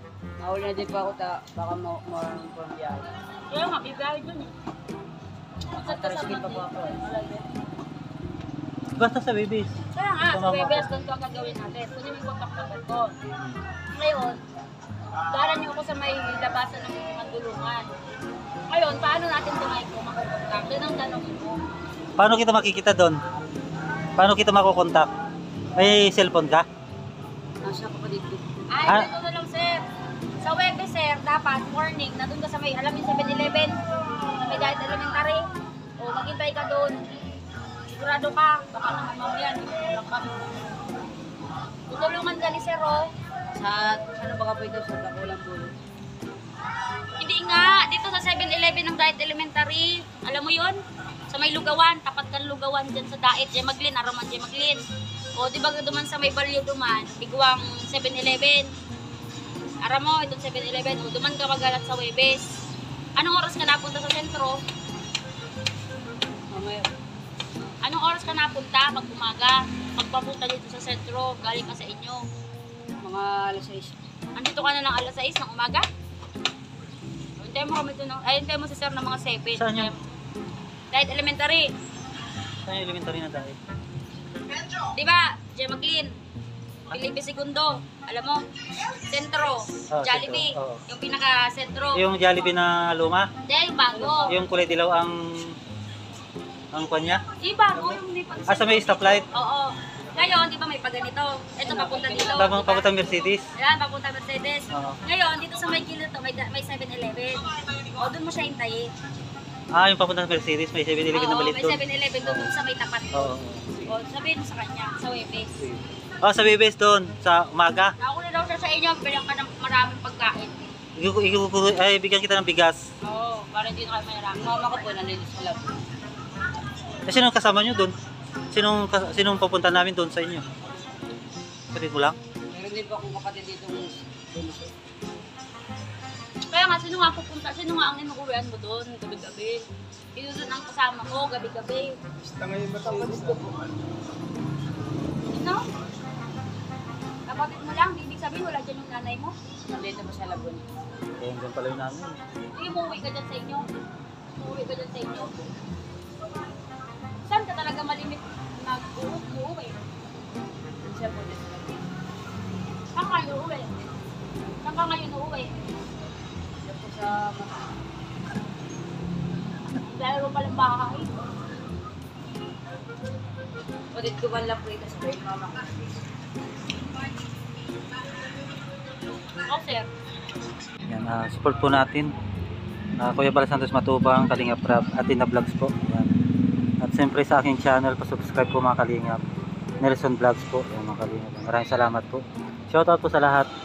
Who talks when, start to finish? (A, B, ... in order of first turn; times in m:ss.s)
0:00.4-0:03.1 A
0:03.5-0:04.5 B
0:05.7-0:07.5 B
0:05.8-0:07.0 A
0:09.0-0:09.7 C
0:09.9-0:13.2 B
0:10.3-0:10.9 C
0:13.9-0:14.4 B
0:15.3-0:17.9 B
0:18.7-0:21.6 B
0:22.2-0:23.2 C
0:24.2-0:25.1 C
0:25.8-0:26.6 C
0:27.6-0:28.4 A
0:28.7-0:29.8 B
0:30.4-0:33.8 B
0:34.3-0:35.4 B
0:36.0-0:37.0 B
0:37.9-0:40.4 B
0:41.9-0:43.1 B
0:43.5-0:45.7 A
0:47.2-0:50.8 B
0:51.3-0:54.8 B
0:55.4-0:58.7 B
0:59.8-1:02.4 B
1:03.2-1:04.6 B
1:06.5-1:06.8 A
1:07.8-1:12.2 B
1:13.0-1:14.0 A
1:14.3-1:15.8 B
1:17.4-1:20.0 B
1:19.5-1:19.9 C
1:20.9-1:21.7 B
1:22.6-1:23.6 C
1:24.6-1:26.2 B
1:26.9-1:28.4 B
1:28.9-1:32.0 B
1:29.9-1:30.8 C
1:31.9-1:33.3 C
1:33.4-1:34.4 B
1:33.9-1:34.6 A
1:34.3-1:35.6 C
1:36.7-1:37.2 C
1:37.4-1:48.9 B
1:38.5-1:39.2 C
1:41.7-1:43.4 C
1:44.7-1:45.0 C
1:49.7-1:52.5 C
1:51.1-1:55.5 B
1:53.1-1:53.9 C
1:55.6-1:57.9 C
1:58.0-2:00.7 B
2:01.0-2:02.8 C
2:03.0-2:04.8 B
2:04.3-2:05.7 A
2:07.0-2:07.9 C
2:08.5-2:10.4 C
2:11.7-2:12.2 C
2:12.5-2:14.7 A
2:16.5-2:22.0 B
2:22.3-2:23.5 A
2:25.3-2:25.6 B
2:27.3-2:29.4 B
2:29.7-2:30.6 A
2:31.2-2:32.2 C
2:32.5-2:33.7 B
2:34.3-2:35.3 B
2:37.2-2:39.8 B
2:40.8-2:41.8 A
2:42.9-2:43.8 B
2:44.6-2:45.5 B
2:46.6-2:47.6 A
2:49.7-2:51.1 B
2:53.9-2:56.0 A
2:59.4-2:59.9 B
3:00.9-3:02.1 C
3:03.0-3:06.1 C
3:06.8-3:09.2 C
3:09.8-3:13.5 C